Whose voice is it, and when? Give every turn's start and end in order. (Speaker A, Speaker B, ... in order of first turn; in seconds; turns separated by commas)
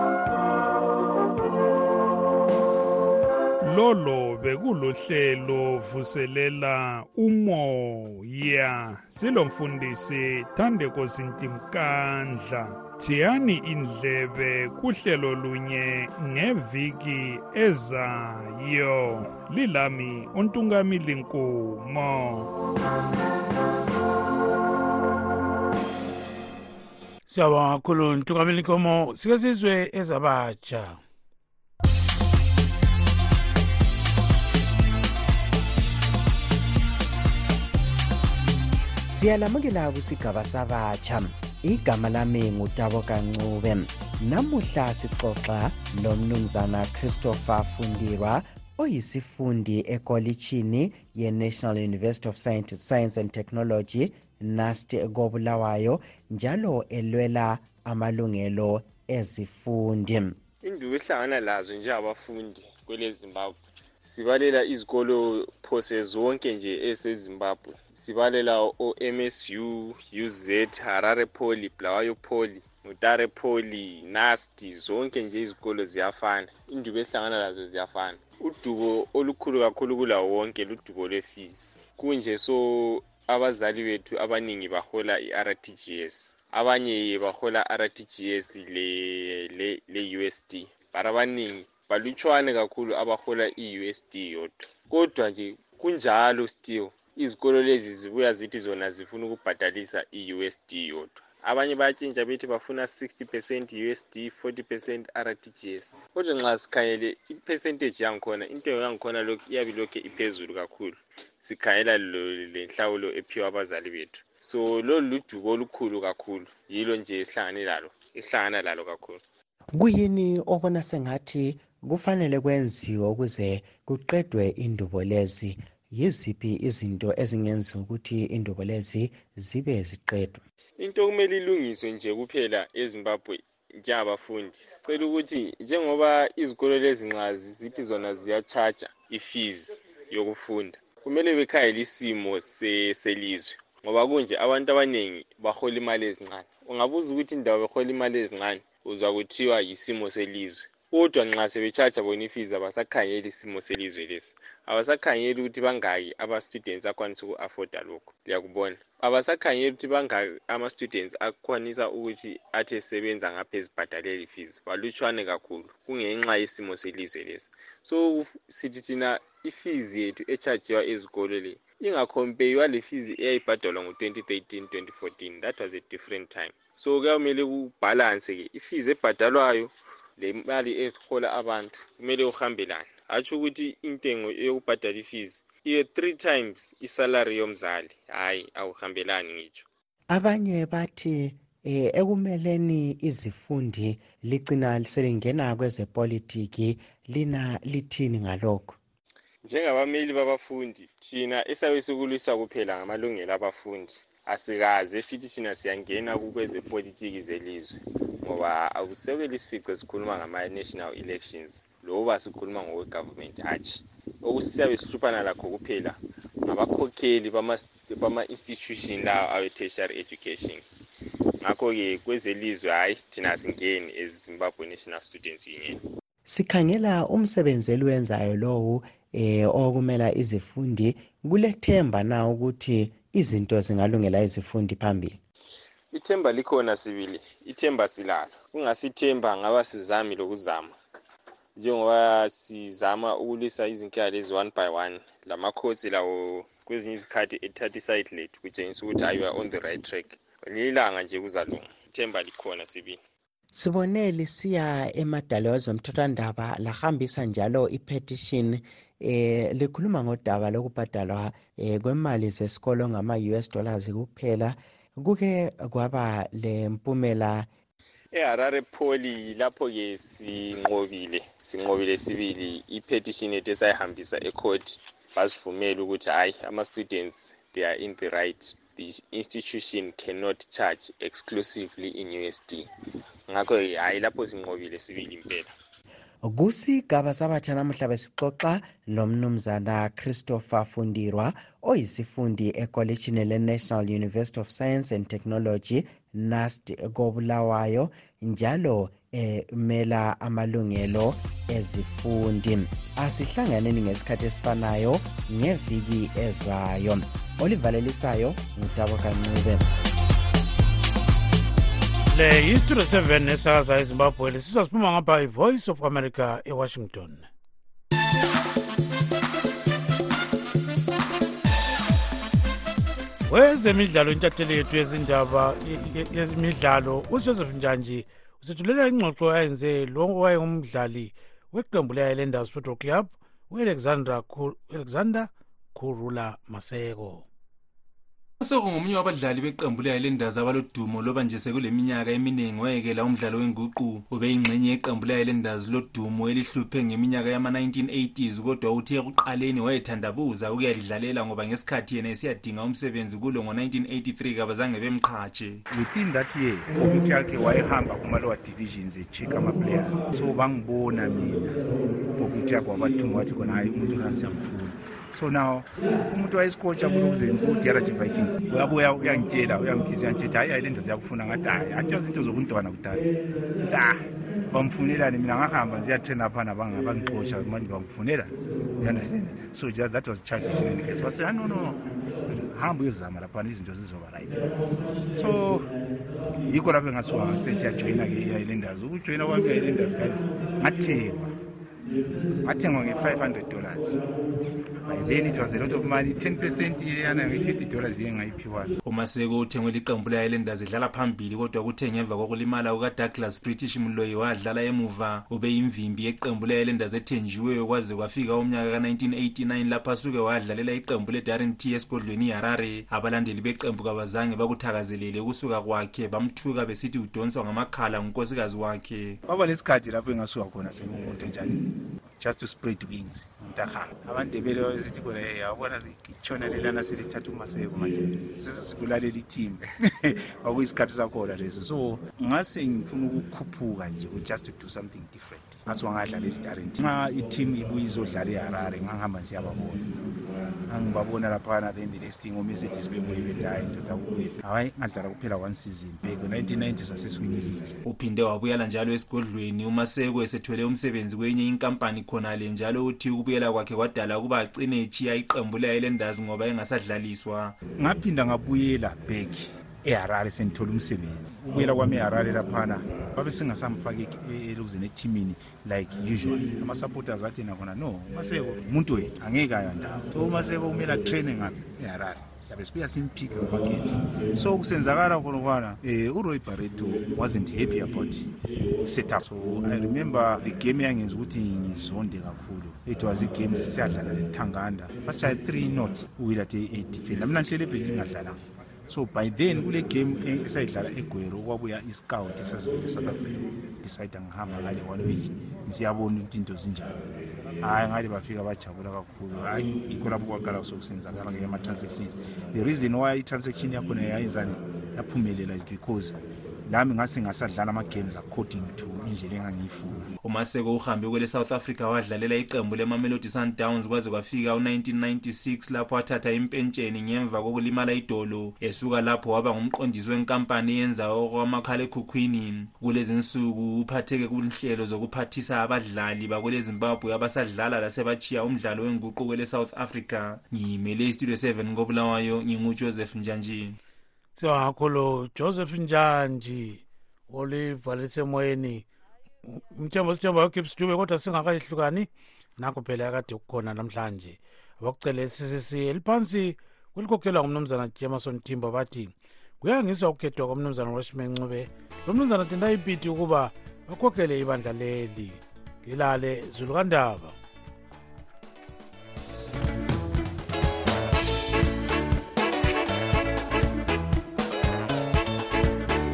Speaker A: 3.6-22.5, Speaker B: 27.3-31.0, Speaker C: 39.0-60.4, Speaker D: 60.6-119.2, Speaker C: 119.7-130.4, Speaker D: 130.8-189.7, Speaker C: 190.1-198.8, Speaker D: 199.4-220.6, Speaker D: 221.4-225.8, Speaker C: 226.3-235.2, Speaker D: 235.9-240.8, Speaker D: 241.6-253.0, Speaker C: 253.5-267.5, Speaker D: 268.1-282.7, Speaker D: 283.3-285.5, Speaker C: 286.2-309.7, Speaker B: 312.1-317.3, Speaker B: 323.3-337.3, Speaker E: 338.4-355.6, Speaker F: 355.7-361.6, Speaker F: 362.1-373.1, Speaker F: 373.6-385.7, Speaker F: 386.4-391.3, Speaker F: 392.4-394.0, Speaker F: 394.8-398.8, Speaker E: 398.8-419.2, Speaker F: 419.3-421.6, Speaker F: 422.2-439.9, Speaker F: 440.7-447.8, Speaker E: 447.8-457.6, Speaker F: 457.8-497.0, Speaker F: 497.6-510.1, Speaker E: 510.2-533.8, Speaker B: 534.4-538.9, Speaker B: 539.4-557.4